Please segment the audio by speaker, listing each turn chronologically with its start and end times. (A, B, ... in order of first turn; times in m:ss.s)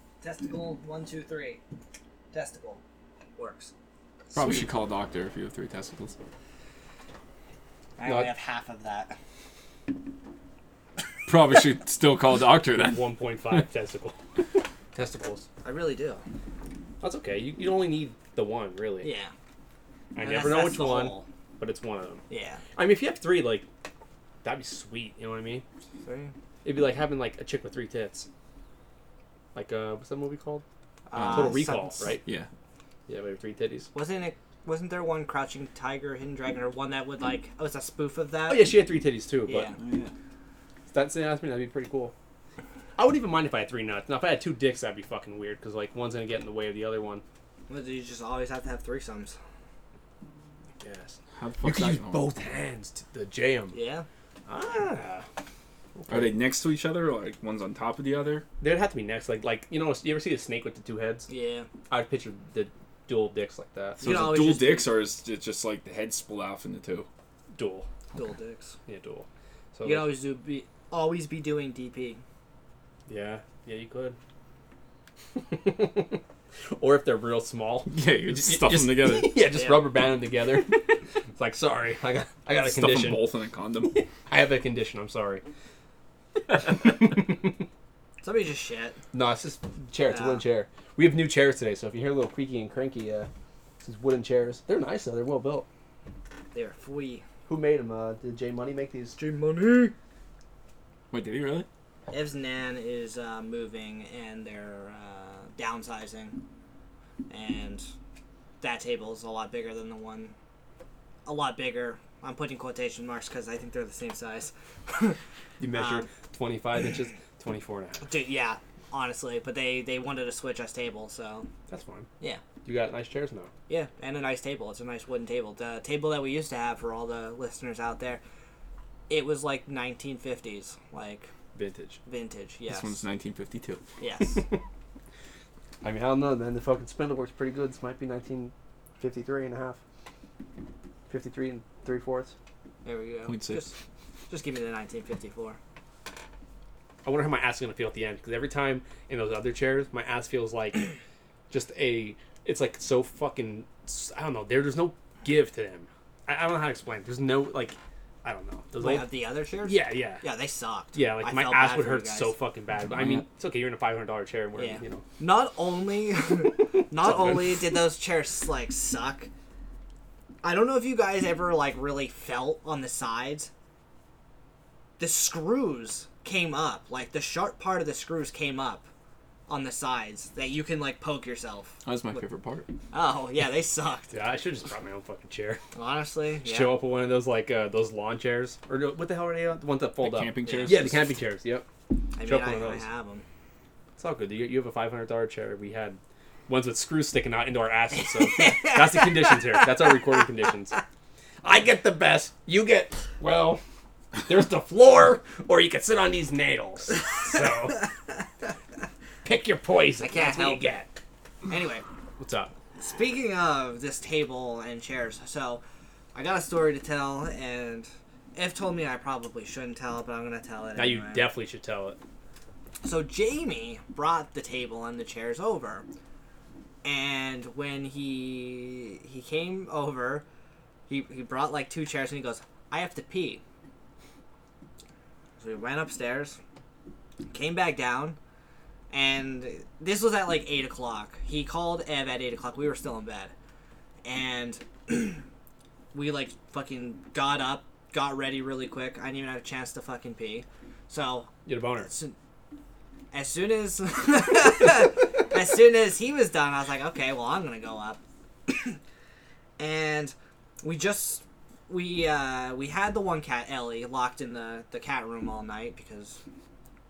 0:00.2-0:01.6 A
0:02.3-0:02.8 A
0:03.4-0:03.7 A
0:04.3-0:06.2 B
0:04.3-0:04.6 C
0:08.0-0:09.2 A
0:08.0-0:08.3 C
0:11.2-0:13.6 B
0:12.8-0:14.2 C
0:14.9-0:15.5 C
0:15.6-0:16.2 A
0:17.0-0:19.1 C
0:19.0-0:19.3 A
0:20.1-0:22.2 C
0:20.2-0:21.3 A
0:22.3-0:22.6 A
0:22.8-0:23.7 C
0:24.4-0:25.6 C
0:26.0-0:26.3 A
0:26.6-0:28.3 C
0:29.6-0:30.6 C
0:31.1-0:32.2 A
0:31.2-0:31.6 B
0:31.2-0:32.2 C
0:32.2-0:32.5 B
0:33.1-0:33.9 C
0:33.9-0:38.7 A
0:38.5-0:39.7 C
0:39.5-0:39.8 A
0:39.8-0:40.1 B
0:40.9-0:42.1 C
0:43.0-0:47.2 C
0:47.7-0:49.4 A
0:50.8-0:53.8 C
0:51.4-0:52.3 B
0:53.7-0:54.0 A
0:54.5-0:55.2 C
0:56.0-0:56.4 C
0:56.1-0:58.4 B
0:58.6-1:01.3 C
1:01.3-1:01.7 A
1:01.9-1:04.0 C
1:04.0-1:04.9 A
1:04.0-1:07.1 B
1:07.5-1:07.9 C
1:08.1-1:08.8 A
1:08.9-1:10.1 C
1:09.8-1:12.2 A
1:13.1-1:14.2 C
1:15.3-1:16.2 C
1:16.7-1:23.3 C
1:17.9-1:19.4 B
1:19.5-1:19.9 A
1:22.6-1:23.9 B
1:23.8-1:25.4 C
1:26.5-1:27.5 C
1:28.2-1:29.0 A
1:29.1-1:33.3 C
1:30.1-1:30.4 A
1:33.8-1:35.7 C
1:36.5-1:37.2 A
1:37.4-1:39.2 C
1:39.2-1:39.9 A
1:41.1-1:41.7 B
1:42.1-1:46.4 A
1:47.3-1:47.9 A
1:48.6-1:50.3 A
1:51.2-1:55.2 A
1:55.6-1:58.1 C
1:55.7-1:56.0 A
1:58.0-2:01.5 A
2:01.7-2:02.1 C
2:02.6-2:03.5 C
2:03.7-2:08.2 A
2:09.1-2:11.3 A
2:11.6-2:12.0 C
2:12.1-2:13.0 A
2:12.7-2:13.8 B
2:14.0-2:14.4 A
2:14.3-2:14.6 C
2:15.8-2:19.8 C
2:21.1-2:22.3 C
2:22.8-2:23.8 A
2:23.3-2:23.7 B
2:24.3-2:25.6 A
2:27.0-2:30.9 C
2:31.5-2:40.2 C
2:38.8-2:42.3 A
2:40.9-2:45.0 C
2:42.8-2:43.2 B
2:44.6-2:49.3 A
2:46.7-2:47.8 C
2:50.4-2:53.5 A
2:55.0-2:58.9 A
2:59.5-3:01.8 A
3:01.8-3:02.7 B
3:02.9-3:04.1 A
3:04.1-3:05.6 C
3:05.8-3:06.8 A
3:06.4-3:11.7 C
3:10.0-3:11.2 B
3:10.4-3:10.8 A
3:12.2-3:13.2 A
3:12.2-3:12.9 C
3:14.0-3:20.8 C
3:18.0-3:20.2 A
3:21.4-3:23.6 C
3:24.2-3:28.1 C
3:29.2-3:30.9 C
3:30.0-3:30.7 A
3:31.5-3:31.8 A
3:32.2-3:32.5 C
3:32.8-3:35.6 A
3:36.1-3:41.2 A
3:40.8-3:42.0 C
3:42.8-3:45.9 A
3:46.8-3:50.2 A
3:50.9-3:53.4 A
3:55.4-3:56.4 A
3:57.3-3:58.2 A
3:58.9-4:03.3 A
4:04.0-4:05.2 A
4:05.9-4:11.3 A
4:11.5-4:11.9 C
4:11.8-4:12.2 A
4:13.1-4:18.8 A
4:19.6-4:26.2 A